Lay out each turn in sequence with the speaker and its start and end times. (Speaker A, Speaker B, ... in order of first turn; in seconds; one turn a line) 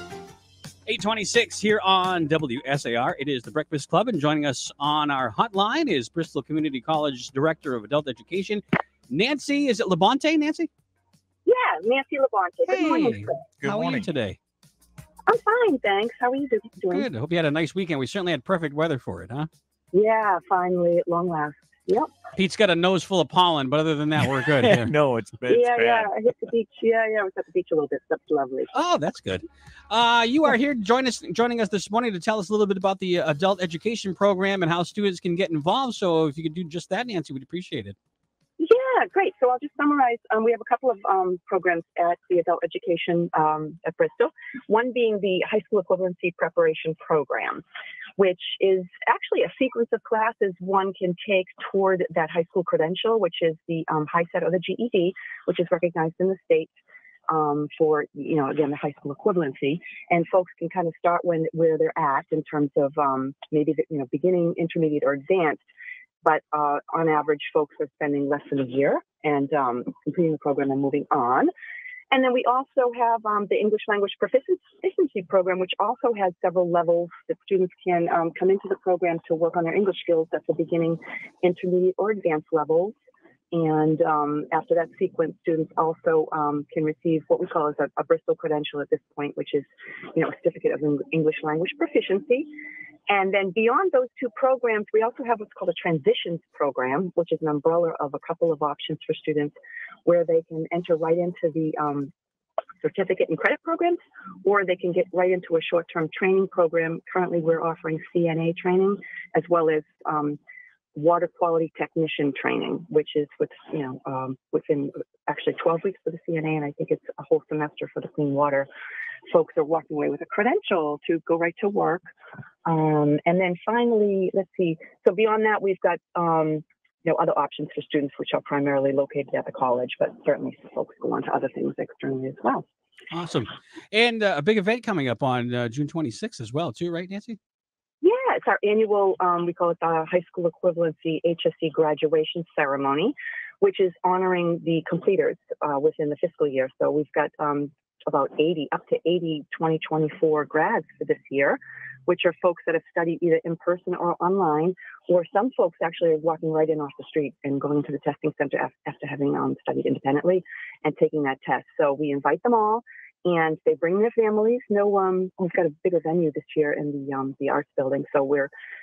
Speaker A: 0.8-10.7
Speaker B: 11.4-13.4
Speaker A: 12.7-14.4
Speaker C: 13.6-14.1
Speaker B: 15.3-17.1
Speaker A: 16.9-19.5
Speaker B: 19.9-22.1
Speaker A: 22.3-24.9
Speaker C: 24.4-26.1
Speaker B: 25.5-28.7
Speaker A: 28.7-38.0
Speaker B: 38.6-47.6
Speaker B: 48.2-56.7
Speaker B: 57.3-65.6
Speaker B: 66.2-71.5
Speaker B: 72.1-82.9
Speaker B: 83.5-92.5
Speaker B: 93.1-99.5
Speaker B: 100.0-102.1
Speaker B: 102.8-110.4
Speaker B: 110.9-118.7
Speaker B: 119.3-122.0
Speaker B: 122.7-132.6
Speaker A: 133.1-137.4
Speaker B: 138.0-168.5